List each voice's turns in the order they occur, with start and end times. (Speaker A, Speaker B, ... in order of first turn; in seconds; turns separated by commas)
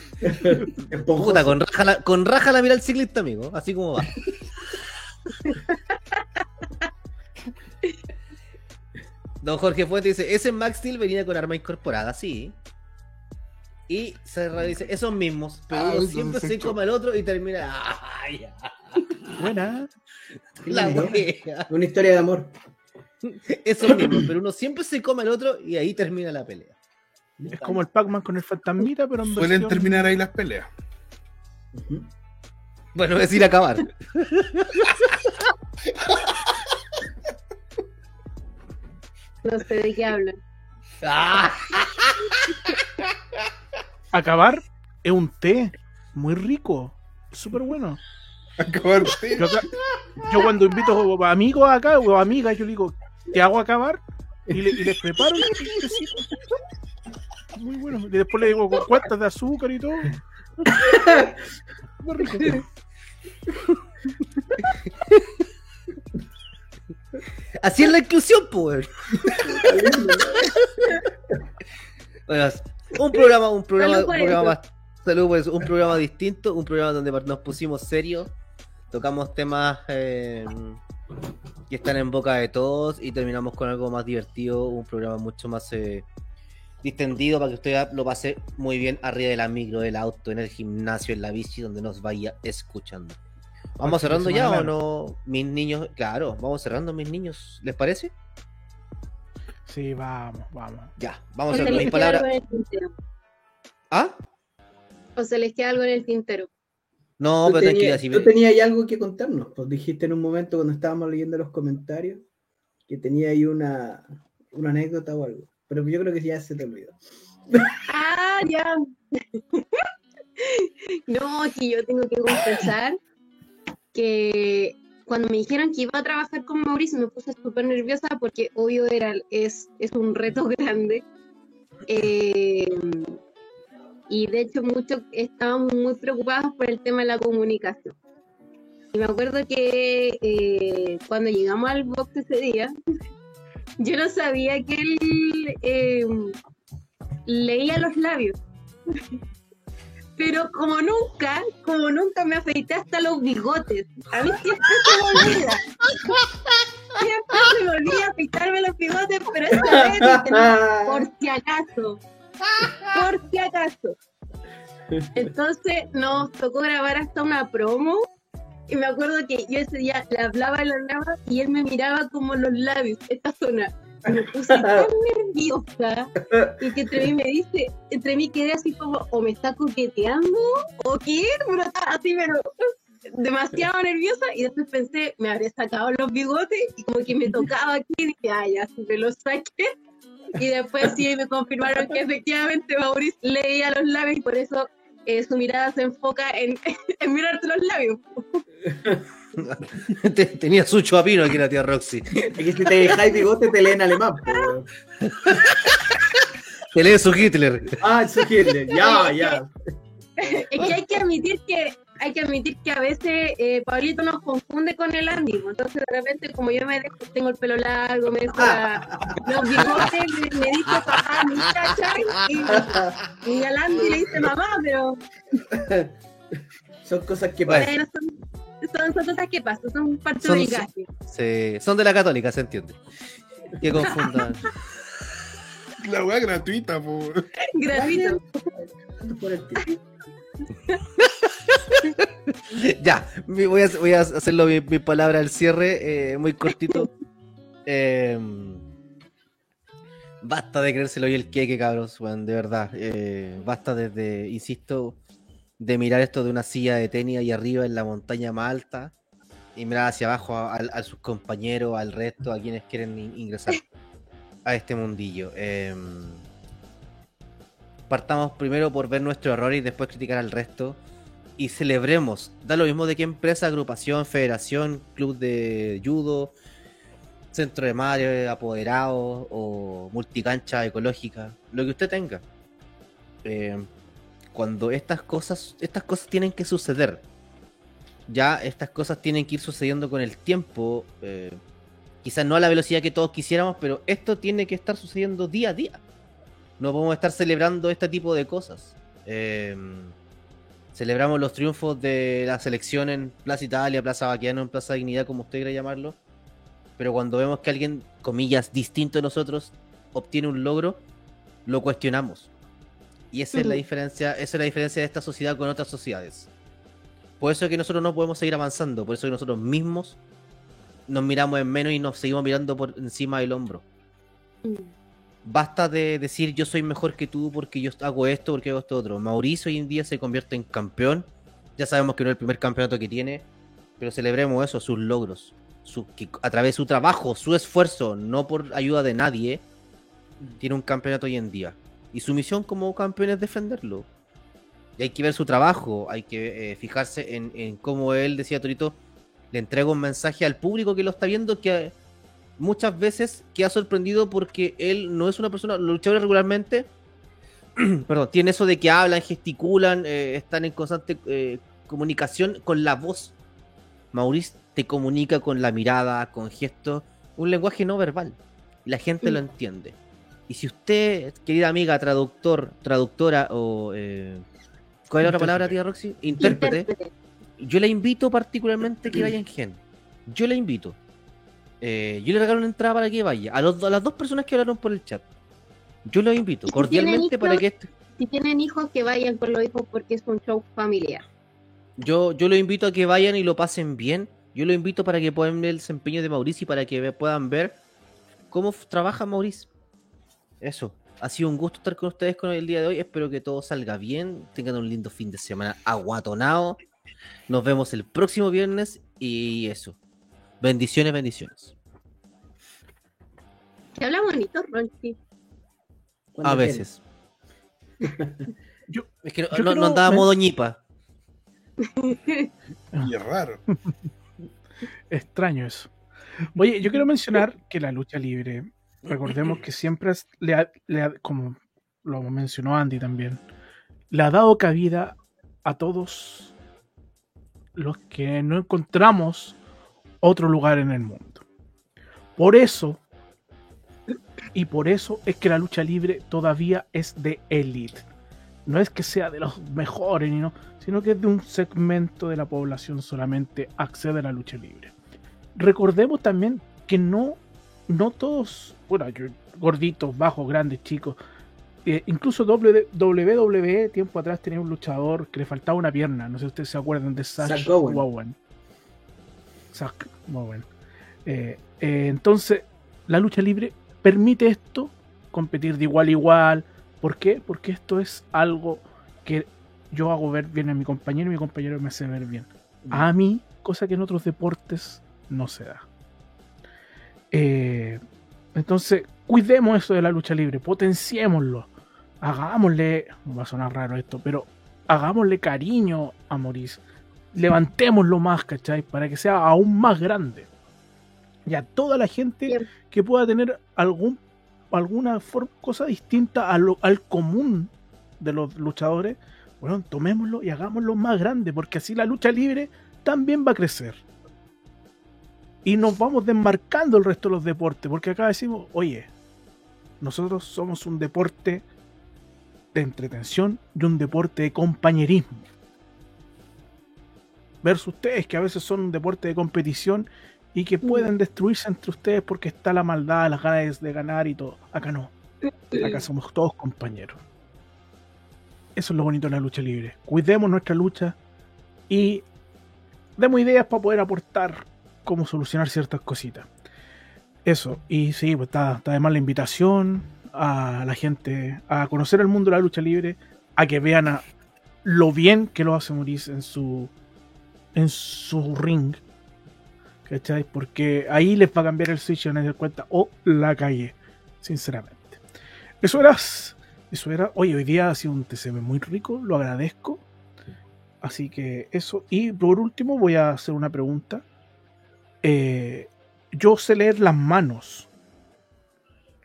Speaker A: 0.2-1.6, Speaker B: 1.1-4.2, Speaker C: 5.4-6.2, Speaker B: 9.4-12.6, Speaker B: 13.9-19.0, Speaker D: 15.7-16.8, Speaker E: 19.4-19.9, Speaker A: 20.6-22.5, Speaker B: 20.7-21.7, Speaker E: 20.8-21.1, Speaker B: 23.2-26.8, Speaker A: 27.4-27.8, Speaker E: 27.5-30.1, Speaker D: 29.3-30.7, Speaker A: 31.7-32.1, Speaker B: 32.9-35.3, Speaker C: 39.4-40.4, Speaker B: 41.0-42.5, Speaker E: 44.1-48.0, Speaker D: 48.6-49.6, Speaker E: 49.4-49.7, Speaker E: 50.2-56.3, Speaker E: 57.5-60.1, Speaker A: 60.7-61.4, Speaker E: 62.0-62.6, Speaker B: 65.0-65.2, Speaker B: 67.6-69.7, Speaker A: 69.5-70.5, Speaker B: 72.3-78.3, Speaker C: 73.8-74.5, Speaker B: 78.9-80.8, Speaker B: 81.7-86.0, Speaker B: 86.8-93.2, Speaker B: 93.8-98.1, Speaker E: 93.8-94.7, Speaker E: 99.7-100.9, Speaker B: 101.0-102.3, Speaker C: 101.5-102.9, Speaker E: 101.6-101.8, Speaker B: 103.9-104.2, Speaker C: 105.2-106.5, Speaker B: 107.2-108.3, Speaker A: 107.4-112.2, Speaker A: 112.9-117.0, Speaker C: 117.9-119.8, Speaker C: 120.4-123.0, Speaker C: 123.9-131.0, Speaker C: 131.9-133.2, Speaker C: 134.1-137.9, Speaker C: 138.9-142.7, Speaker C: 143.8-146.3, Speaker C: 147.2-148.4, Speaker C: 150.2-155.6, Speaker C: 156.9-162.0, Speaker A: 159.5-161.1, Speaker C: 162.8-163.9, Speaker C: 165.1-168.0, Speaker C: 168.7-182.5, Speaker A: 174.5-174.9, Speaker A: 176.2-176.6, Speaker C: 183.1-189.7, Speaker C: 190.3-198.4, Speaker A: 198.7-199.0, Speaker B: 199.3-202.9, Speaker A: 202.3-204.7, Speaker B: 205.0-206.2, Speaker B: 206.7-207.8, Speaker A: 207.8-209.5, Speaker C: 208.7-209.4, Speaker C: 210.2-225.0, Speaker A: 218.4-219.8, Speaker A: 222.5-222.9, Speaker A: 225.3-225.9, Speaker A: 226.8-227.7, Speaker C: 227.5-230.9, Speaker B: 230.2-232.8, Speaker B: 233.6-234.5, Speaker D: 235.8-237.3, Speaker C: 237.5-238.2, Speaker A: 237.7-239.6, Speaker B: 241.0-246.9, Speaker B: 247.7-248.6, Speaker B: 250.2-255.0, Speaker B: 255.6-258.9, Speaker B: 259.5-263.7, Speaker B: 264.4-266.2, Speaker B: 267.9-270.8, Speaker B: 271.4-276.3, Speaker B: 277.3-282.2, Speaker B: 283.2-283.7, Speaker B: 284.3-287.0, Speaker B: 288.1-291.4, Speaker B: 292.0-295.8, Speaker B: 296.6-299.9, Speaker B: 300.7-306.0, Speaker B: 306.8-310.8, Speaker B: 311.4-312.3, Speaker B: 313.1-316.3, Speaker C: 313.3-313.6, Speaker B: 317.2-320.0, Speaker B: 320.9-323.6, Speaker C: 324.4-324.7, Speaker B: 325.2-333.3, Speaker B: 333.8-339.4, Speaker B: 340.4-343.9, Speaker B: 344.8-348.8, Speaker B: 349.3-351.7, Speaker B: 352.4-356.7, Speaker B: 357.6-363.1, Speaker B: 363.9-369.8, Speaker B: 370.3-374.2, Speaker B: 374.9-376.7, Speaker E: 375.1-375.5, Speaker C: 376.2-376.9, Speaker B: 377.4-380.8, Speaker B: 381.6-385.1, Speaker B: 385.8-387.7, Speaker C: 386.5-387.4, Speaker C: 387.9-391.0, Speaker B: 391.8-397.6, Speaker B: 398.3-399.5, Speaker B: 400.4-406.6, Speaker B: 407.3-409.8, Speaker B: 410.4-411.5, Speaker C: 413.8-415.0, Speaker A: 416.1-416.6, Speaker B: 416.2-416.8, Speaker A: 417.8-418.3, Speaker E: 418.7-420.1, Speaker B: 419.0-420.6, Speaker C: 421.6-422.3, Speaker D: 422.8-423.4, Speaker E: 423.5-423.7, Speaker E: 424.9-425.7, Speaker E: 426.3-433.2, Speaker E: 433.9-436.3, Speaker E: 437.5-439.4, Speaker E: 440.0-441.2, Speaker E: 442.2-442.8, Speaker E: 444.3-447.9, Speaker E: 448.4-454.7, Speaker E: 455.4-461.0, Speaker E: 461.6-468.1, Speaker A: 467.2-467.8, Speaker E: 469.5-470.5, Speaker E: 471.1-485.6, Speaker A: 482.6-482.9, Speaker E: 487.1-487.8, Speaker E: 488.3-491.5, Speaker E: 492.0-496.6, Speaker E: 497.1-500.3, Speaker E: 501.2-504.0, Speaker E: 504.5-513.8, Speaker E: 515.4-518.9, Speaker E: 519.8-521.4, Speaker E: 522.5-525.2, Speaker E: 527.4-534.9, Speaker C: 530.6-530.9, Speaker C: 535.5-535.8, Speaker E: 535.5-537.0, Speaker E: 538.5-541.0, Speaker E: 541.7-542.0, Speaker E: 543.0-546.3, Speaker E: 547.2-554.0, Speaker E: 554.6-556.7, Speaker E: 557.5-558.8, Speaker E: 559.9-565.0, Speaker E: 565.6-569.8, Speaker E: 570.8-574.0, Speaker E: 575.0-577.7